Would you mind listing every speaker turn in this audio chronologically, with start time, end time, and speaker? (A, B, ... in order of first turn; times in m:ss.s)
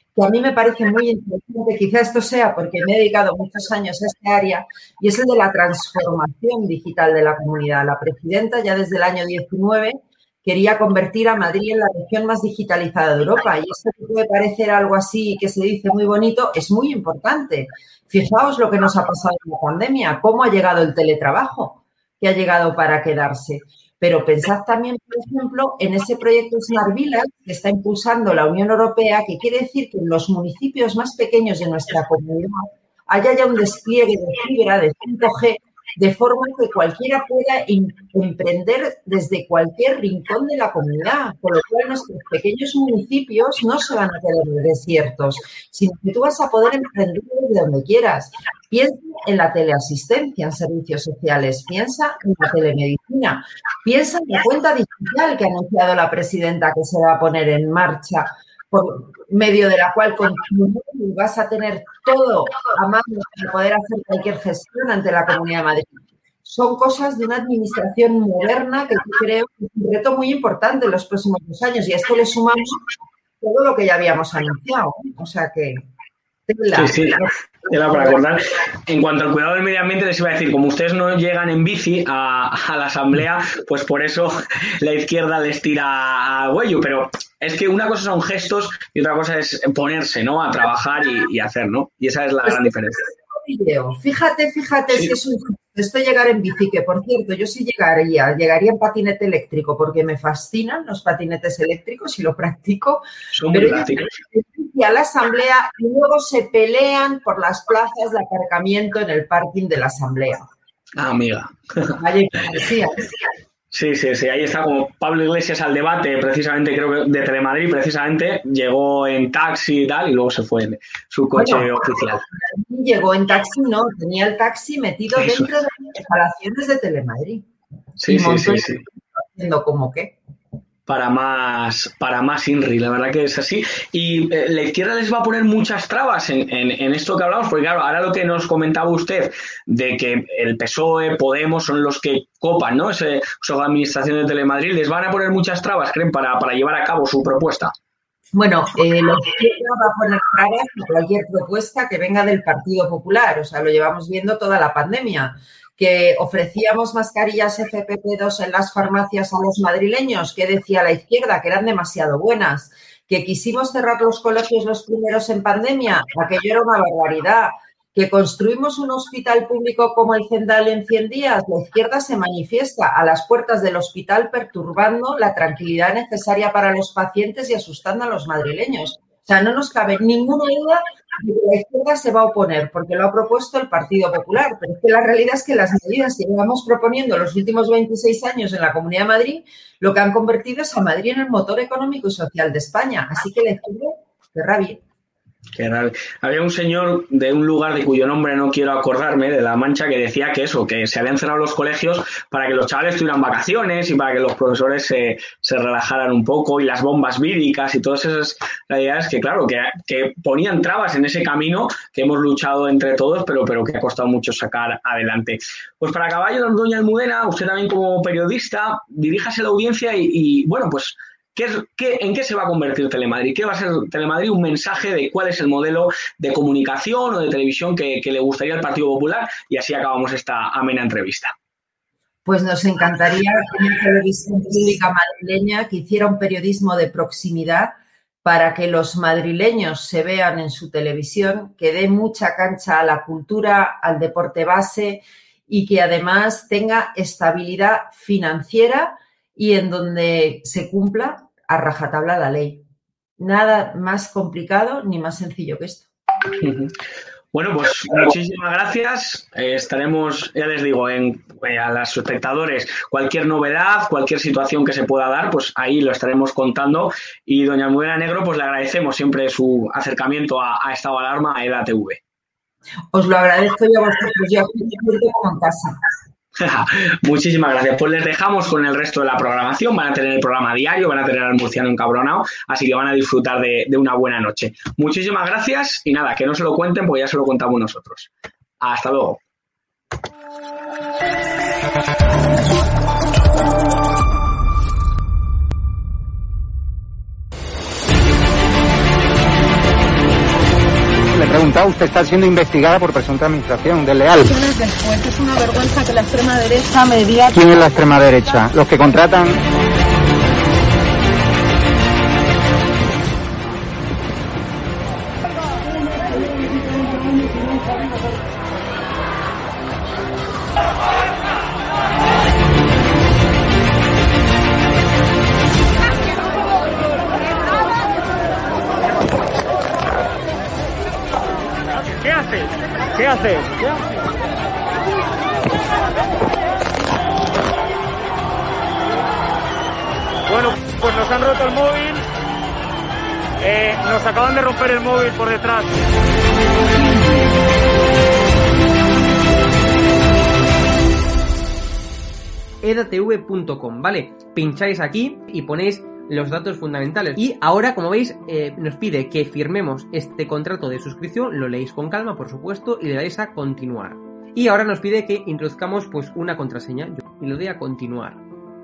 0:00.2-1:12.8 A
1:13.4-1:15.8 A
1:16.5-1:17.1 A
1:16.7-1:33.0 B
1:32.4-1:32.7 A
1:33.3-1:50.5 A
1:43.3-1:44.1 B
1:51.0-1:52.0 B
1:51.9-1:53.1 A
1:53.7-2:02.2 B
2:01.4-2:07.4 A
2:05.2-2:05.5 B
2:08.0-2:08.8 B
2:08.1-2:10.2 A
2:10.9-2:27.7 B
2:28.3-3:14.8 A
3:15.6-3:51.3 B
3:52.3-4:12.6 A
4:13.2-4:15.9 A
4:16.4-4:16.8 B
4:17.3-4:32.0 B
4:32.9-4:35.8 A
4:36.4-4:49.2 B
5:01.1-5:04.3 C
5:04.2-5:07.3 D
5:07.3-5:09.4 C
5:31.8-5:33.9 E
5:40.3-5:42.1 E
5:43.4-5:45.8 E
5:52.6-6:08.2 F